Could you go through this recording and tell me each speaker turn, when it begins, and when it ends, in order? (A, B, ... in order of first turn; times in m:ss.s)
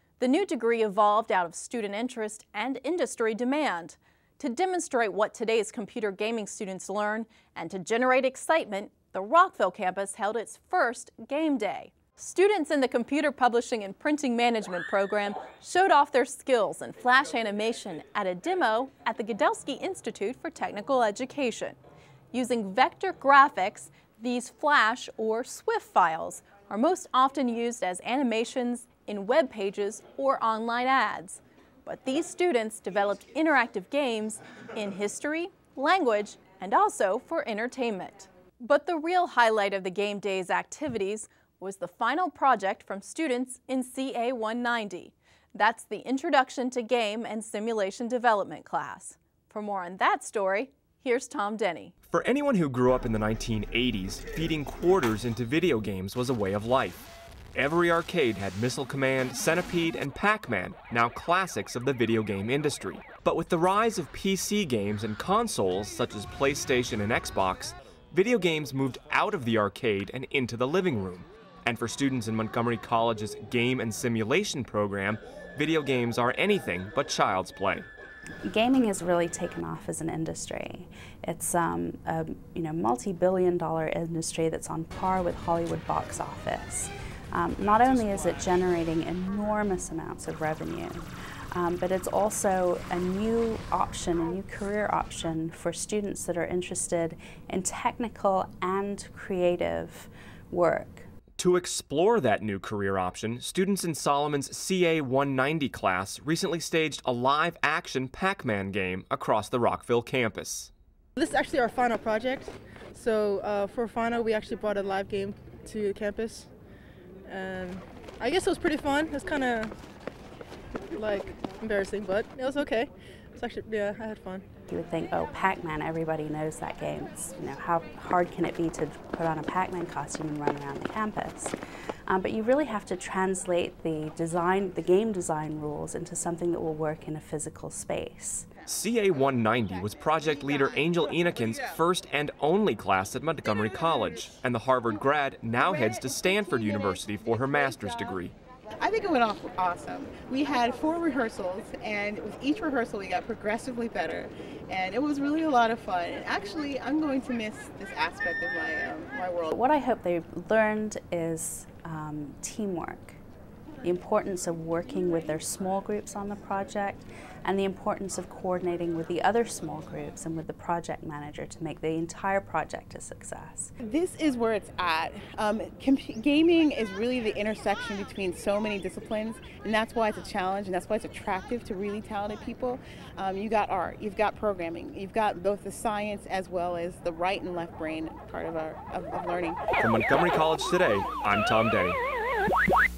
0:00.2-0:21.8 A
0:22.3-0:51.9 A
0:52.1-0:57.0 B
0:57.5-1:17.9 B
1:18.4-1:41.1 C
1:41.4-1:50.7 B
1:51.2-1:56.5 D
1:57.3-1:59.7 D
2:00.9-2:04.4 D
2:04.7-2:11.5 C
2:12.1-2:18.5 C
2:18.6-2:28.3 B
2:28.8-2:39.5 E
2:39.5-2:43.2 C
2:43.8-2:53.7 C
2:53.8-3:09.6 E
3:09.8-3:12.0 B